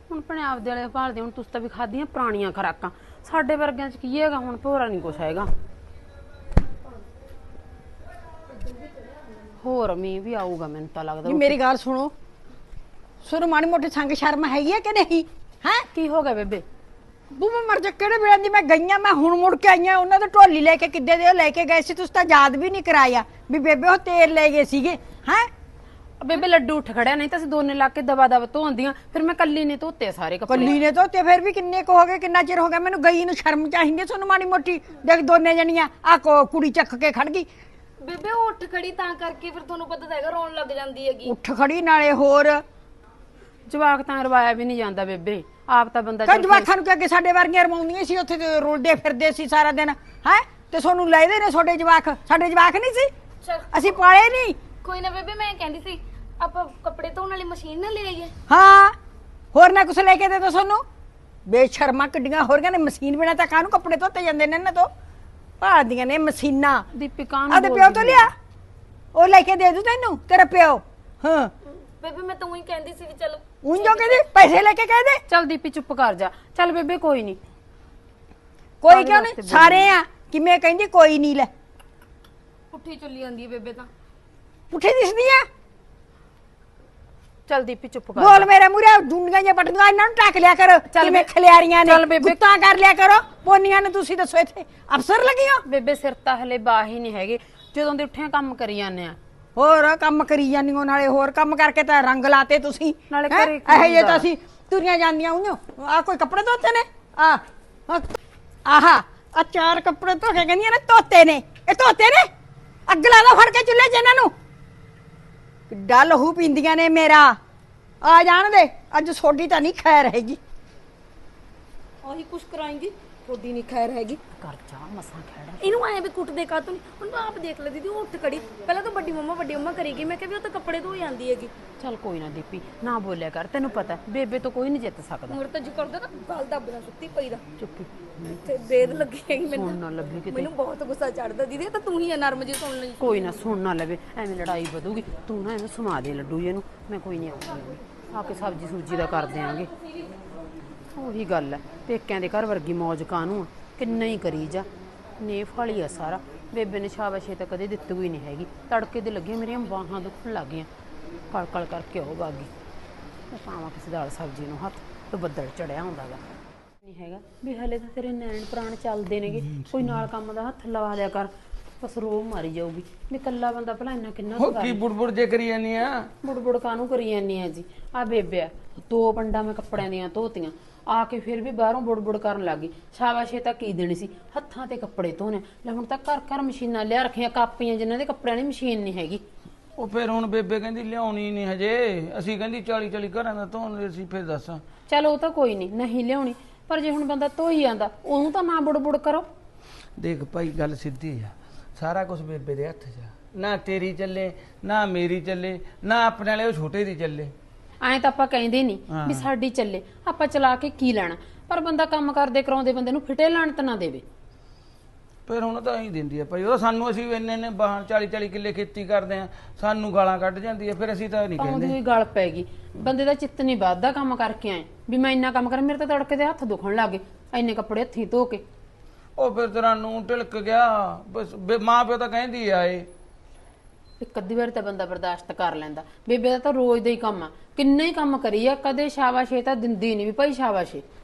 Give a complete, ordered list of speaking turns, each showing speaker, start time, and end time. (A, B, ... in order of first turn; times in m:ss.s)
0:00.1-0:05.5 A
0:08.5-0:09.5 B
0:09.6-0:11.6 A
0:11.2-0:12.1 C
0:13.2-0:15.9 C
0:15.9-0:16.6 A
0:17.3-0:25.5 C
0:26.2-0:30.8 A
0:30.5-0:37.5 C
0:38.0-0:41.4 B
0:41.2-0:42.6 C
0:43.7-0:46.7 A
0:46.3-0:53.1 C
0:53.4-0:53.9 B
0:53.7-0:54.6 C
0:54.7-0:58.3 B
0:58.5-0:59.0 C
0:59.5-1:00.8 C
1:01.5-1:04.9 C
1:05.6-1:06.9 C
1:06.9-1:08.3 A
1:07.5-1:08.3 C
1:09.1-1:11.5 C
1:11.7-1:14.2 B
1:13.6-1:15.2 C
1:15.3-1:17.4 A
1:18.8-1:21.5 C
1:18.9-1:20.0 A
1:22.7-1:23.9 B
1:24.7-1:25.5 C
1:27.5-1:28.5 A
1:28.2-1:35.6 C
1:30.9-1:31.3 A
1:31.8-1:32.4 A
1:35.7-1:39.2 A
1:39.6-1:48.1 C
1:43.1-1:44.3 A
1:48.7-1:52.3 C
1:52.9-1:54.3 C
1:55.7-1:57.4 C
1:58.0-2:00.4 C
2:02.0-2:04.2 B
2:04.3-2:05.8 A
2:05.6-2:11.5 B
2:11.8-2:15.4 A
2:15.3-2:17.4 B
2:17.6-2:18.4 A
2:18.4-2:23.4 B
2:19.5-2:20.5 A
2:23.0-2:29.7 A
2:28.8-2:30.2 B
2:31.0-2:34.7 A
2:35.2-2:40.7 A
2:41.3-2:42.5 A
2:43.3-2:46.2 A
2:46.8-2:54.8 A
2:54.4-2:56.1 D
2:56.2-3:09.2 A
3:09.8-3:14.6 D
3:14.9-3:19.3 A
3:20.0-3:27.3 D
3:27.8-3:34.0 A
3:28.9-3:29.3 D
3:35.3-3:41.8 D
3:41.4-3:48.4 A
3:49.2-3:52.9 D
3:54.0-4:00.8 A